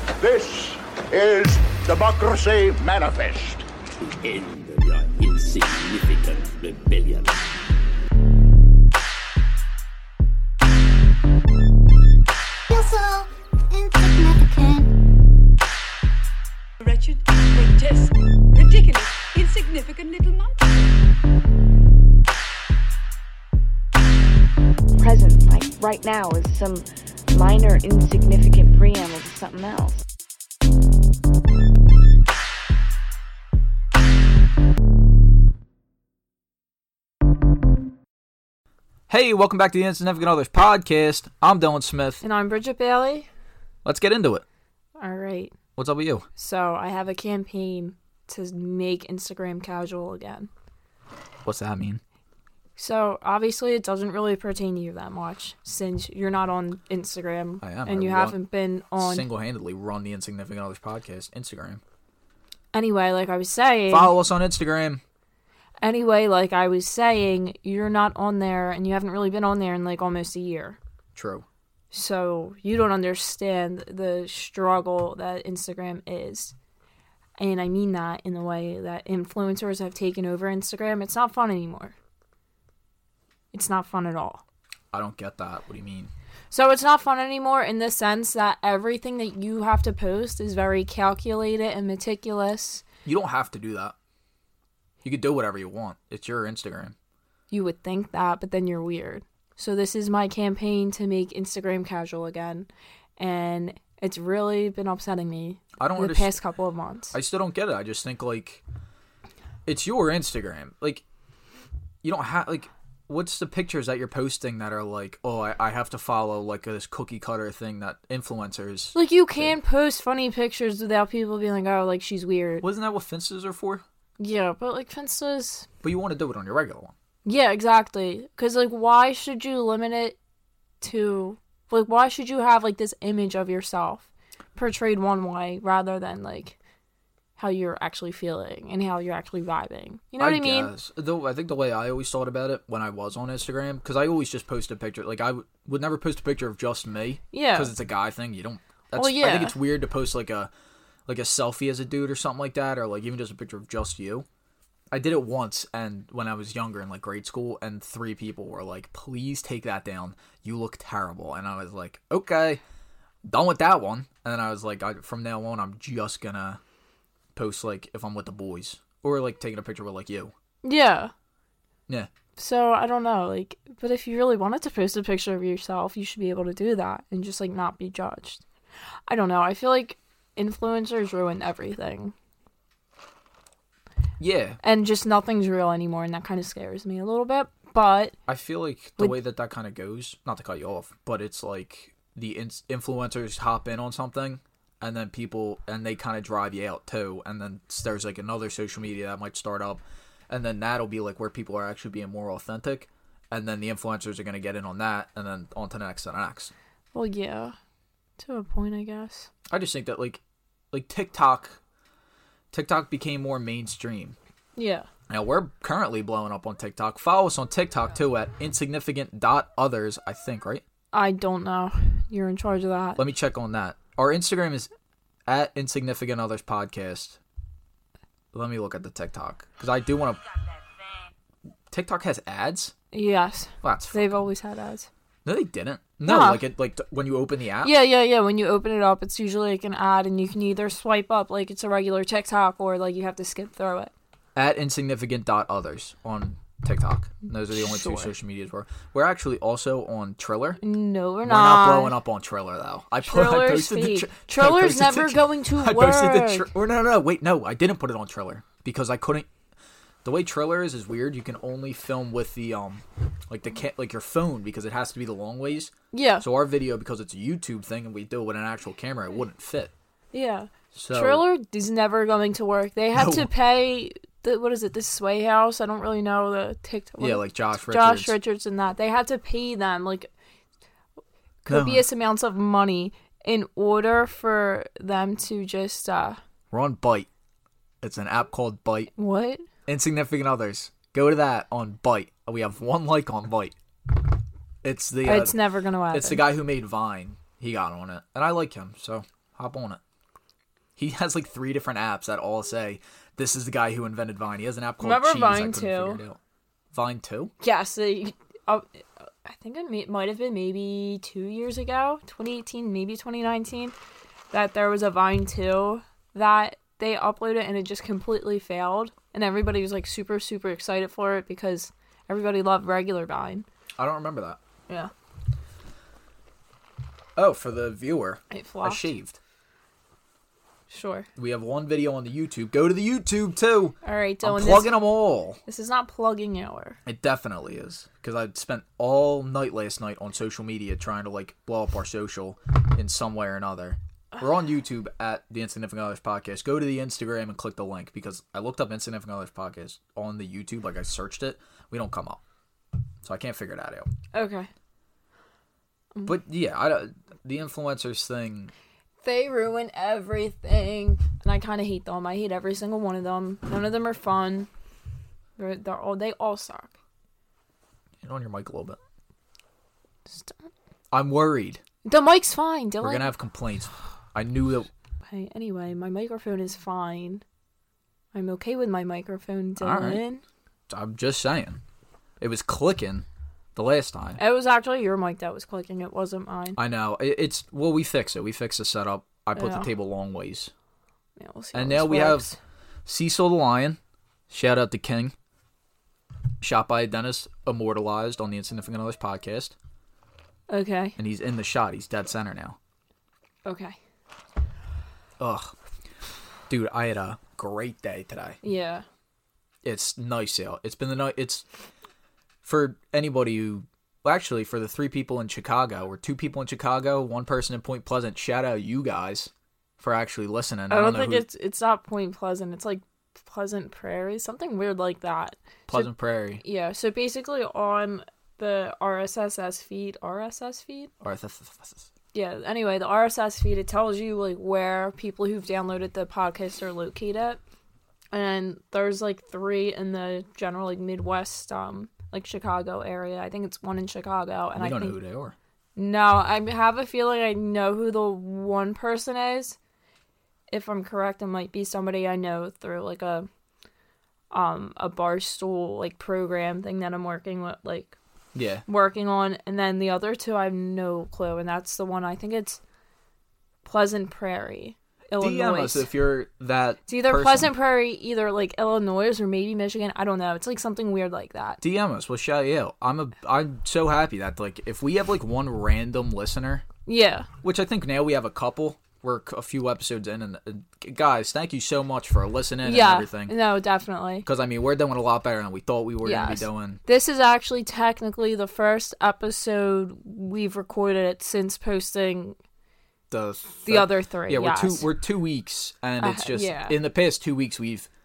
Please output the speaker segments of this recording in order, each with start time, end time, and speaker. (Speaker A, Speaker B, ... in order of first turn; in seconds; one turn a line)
Speaker A: 0.2-3.7
Speaker B: 4.0-7.5
Speaker C: 12.7-14.9
Speaker D: 16.8-20.7
Speaker E: 25.0-30.0
Speaker F: 39.1-42.2
Speaker G: 42.2-43.3
Speaker F: 43.8-44.4
Speaker G: 45.0-45.5
Speaker F: 45.8-46.3
Speaker G: 46.4-50.5
Speaker F: 51.4-52.0
Speaker G: 52.8-59.2
Speaker F: 57.6-58.4
Speaker F: 59.0-61.8
Speaker G: 62.7-64.1
Speaker F: 63.9-65.0
Speaker G: 65.8-70.8
Speaker F: 71.1-71.5
Speaker G: 71.9-76.5
Speaker G: 77.4-81.9
Speaker G: 83.5-84.4
Speaker F: 84.9-86.1
Speaker G: 86.5-92.8
Speaker F: 93.0-93.9
Speaker F: 95.0-96.9
Speaker G: 97.5-107.1
Speaker F: 105.8-106.4
Speaker F: 107.1-108.6
Speaker F: 109.7-111.0
Speaker F: 112.0-119.5
Speaker G: 118.9-122.6
Speaker F: 122.6-123.8
Speaker G: 124.2-125.7
Speaker F: 125.8-126.9
Speaker G: 127.2-130.2
Speaker G: 130.8-136.6
Speaker G: 137.4-140.7
Speaker F: 140.2-150.5
Speaker G: 147.3-147.7
Speaker G: 148.9-149.5
Speaker F: 151.1-154.2
Speaker F: 154.9-162.6
Speaker F: 163.2-166.6
Speaker F: 167.3-170.3
Speaker G: 170.6-171.1
Speaker G: 172.4-178.4
Speaker G: 179.1-182.1
Speaker F: 184.2-184.6
Speaker G: 184.6-188.1
Speaker F: 188.3-206.5
Speaker G: 206.9-207.6
Speaker G: 208.2-209.3
Speaker F: 209.5-211.6
Speaker F: 212.5-214.2
Speaker G: 214.6-214.9
Speaker F: 215.1-220.6
Speaker G: 220.9-223.0
Speaker F: 222.9-224.7
Speaker F: 225.3-227.2
Speaker F: 228.3-230.2
Speaker F: 231.7-232.7
Speaker G: 232.9-234.9
Speaker F: 233.6-234.1
Speaker F: 235.2-237.7
Speaker G: 236.0-236.4
Speaker G: 237.6-243.9
Speaker F: 244.3-250.6
Speaker G: 247.5-248.1
Speaker G: 250.6-251.9
Speaker F: 251.2-259.3
Speaker G: 253.0-256.5
Speaker F: 260.0-269.7
Speaker G: 265.9-266.2
Speaker G: 270.1-280.1
Speaker F: 270.7-271.2
Speaker F: 272.9-273.3
Speaker F: 277.0-278.1
Speaker G: 281.4-286.2
Speaker F: 281.5-281.9
Speaker F: 286.5-287.1
Speaker F: 287.8-288.9
Speaker G: 288.9-289.4
Speaker F: 289.7-293.5
Speaker F: 294.6-295.4
Speaker G: 295.0-296.2
Speaker F: 295.9-299.8
Speaker F: 300.8-306.2
Speaker G: 304.8-306.0
Speaker F: 306.7-307.3
Speaker G: 307.4-313.7
Speaker G: 314.3-323.4
Speaker F: 323.8-324.4
Speaker F: 327.1-329.2
Speaker G: 328.3-328.9
Speaker G: 330.7-331.1
Speaker F: 331.2-335.4
Speaker G: 333.8-334.8
Speaker G: 335.4-336.8
Speaker F: 336.8-352.2
Speaker F: 353.0-353.9
Speaker G: 354.1-354.5
Speaker F: 356.1-358.5
Speaker G: 359.0-364.5
Speaker G: 365.4-366.7
Speaker F: 368.0-368.8
Speaker G: 370.1-370.4
Speaker F: 370.9-371.6
Speaker G: 371.9-373.1
Speaker F: 372.8-374.7
Speaker G: 375.1-377.2
Speaker G: 378.1-380.2
Speaker F: 379.6-380.0
Speaker F: 380.7-381.6
Speaker F: 382.2-384.2
Speaker G: 384.2-386.6
Speaker F: 386.6-390.5
Speaker G: 389.4-389.7
Speaker G: 391.2-392.4
Speaker F: 391.5-392.3
Speaker F: 392.9-393.8
Speaker F: 394.3-395.1
Speaker F: 396.4-399.5
Speaker G: 400.5-400.9
Speaker F: 401.0-402.6
Speaker G: 403.4-403.8
Speaker F: 405.2-405.5
Speaker F: 406.5-408.4
Speaker G: 408.4-408.9
Speaker F: 409.6-411.4
Speaker F: 412.4-421.2
Speaker G: 420.7-430.9
Speaker F: 425.7-426.4
Speaker F: 431.0-431.9
Speaker G: 432.1-437.4
Speaker G: 438.1-445.0
Speaker F: 444.6-445.4
Speaker G: 445.8-449.6
Speaker G: 450.5-453.3
Speaker G: 454.3-457.9
Speaker F: 458.3-458.6
Speaker G: 458.7-462.6
Speaker G: 463.6-465.9
Speaker F: 465.2-467.5
Speaker G: 466.9-471.6
Speaker F: 471.6-476.6
Speaker G: 476.9-477.3
Speaker F: 477.4-483.3
Speaker G: 482.6-484.2
Speaker F: 484.2-486.8
Speaker G: 486.0-492.4
Speaker F: 493.1-497.9
Speaker G: 493.6-494.9
Speaker G: 496.0-496.8